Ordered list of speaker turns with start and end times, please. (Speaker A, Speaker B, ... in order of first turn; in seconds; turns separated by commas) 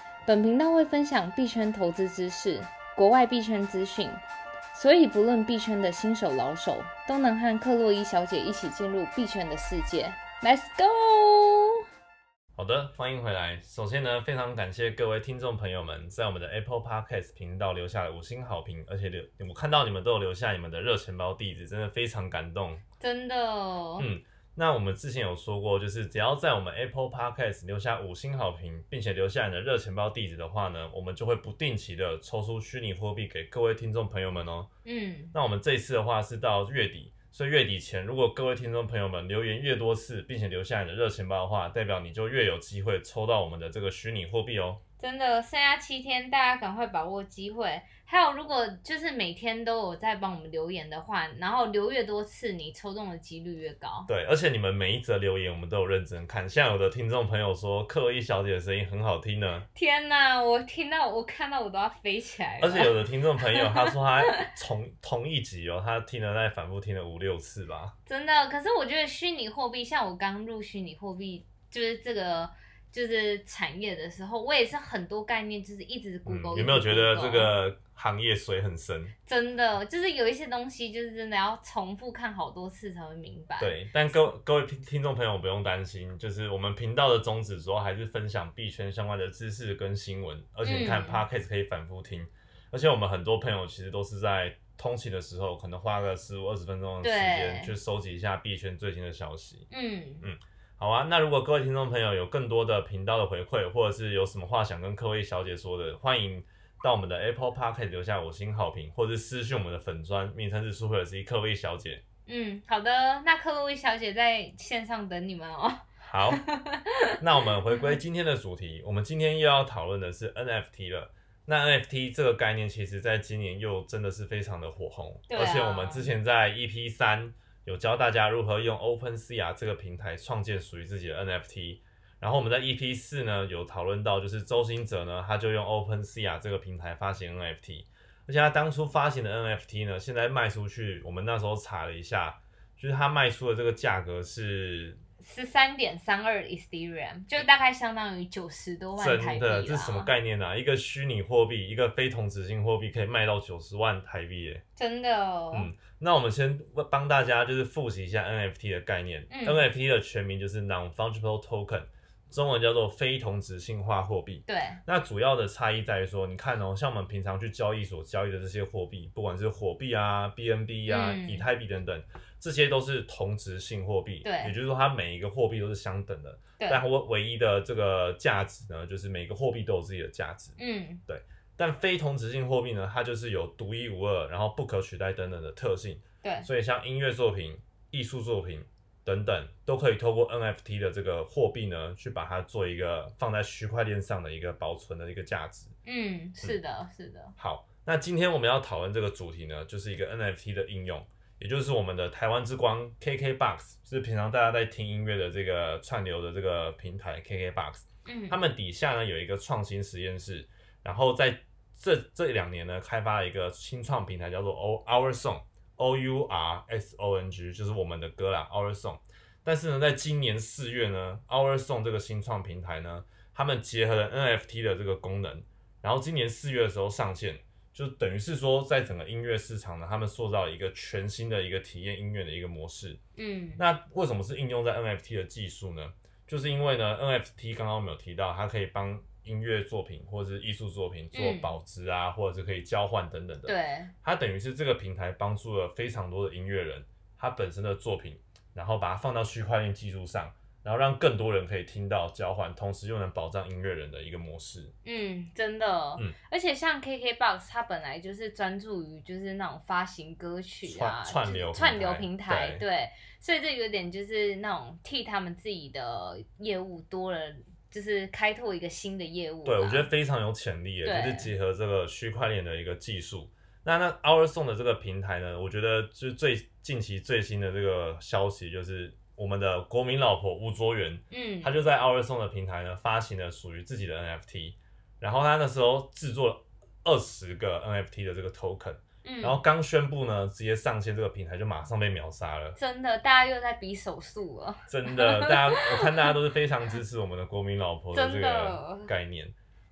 Speaker A: 0.3-11.8, Speaker B: 12.6-22.8, Speaker A: 23.0-24.1, Speaker B: 24.0-34.7, Speaker A: 34.9-35.3, Speaker B: 35.3-44.8, Speaker A: 45.0-54.1, Speaker B: 54.1-59.7, Speaker A: 59.7-64.5, Speaker B: 62.6-67.9, Speaker A: 68.1-77.5, Speaker B: 76.3-79.1, Speaker A: 79.3-83.8, Speaker B: 83.6-99.7, Speaker A: 90.6-91.2, Speaker A: 97.0-97.7, Speaker A: 99.7-100.3, Speaker B: 100.2-112.0, Speaker A: 112.3-118.0, Speaker B: 116.0-116.4, Speaker B: 117.2-145.0, Speaker A: 125.3-126.1, Speaker A: 145.2-150.1, Speaker B: 149.0-154.6, Speaker A: 154.8-155.7, Speaker B: 155.5-180.6, Speaker A: 159.3-159.7, Speaker A: 164.5-164.8, Speaker A: 170.9-171.4, Speaker A: 174.2-174.6, Speaker A: 176.6-176.8, Speaker A: 180.6-181.0, Speaker B: 181.1-195.7, Speaker A: 186.2-186.5, Speaker A: 195.8-197.3, Speaker B: 197.4-233.0, Speaker A: 208.1-208.4, Speaker A: 233.2-233.6, Speaker B: 233.6-254.7, Speaker A: 241.1-241.6, Speaker A: 243.5-243.9, Speaker A: 254.8-269.9, Speaker B: 260.6-262.6, Speaker B: 269.4-292.6, Speaker A: 270.8-271.3, Speaker A: 281.1-281.6, Speaker A: 289.0-289.4, Speaker A: 292.6-296.1, Speaker B: 294.7-299.3, Speaker A: 297.9-298.9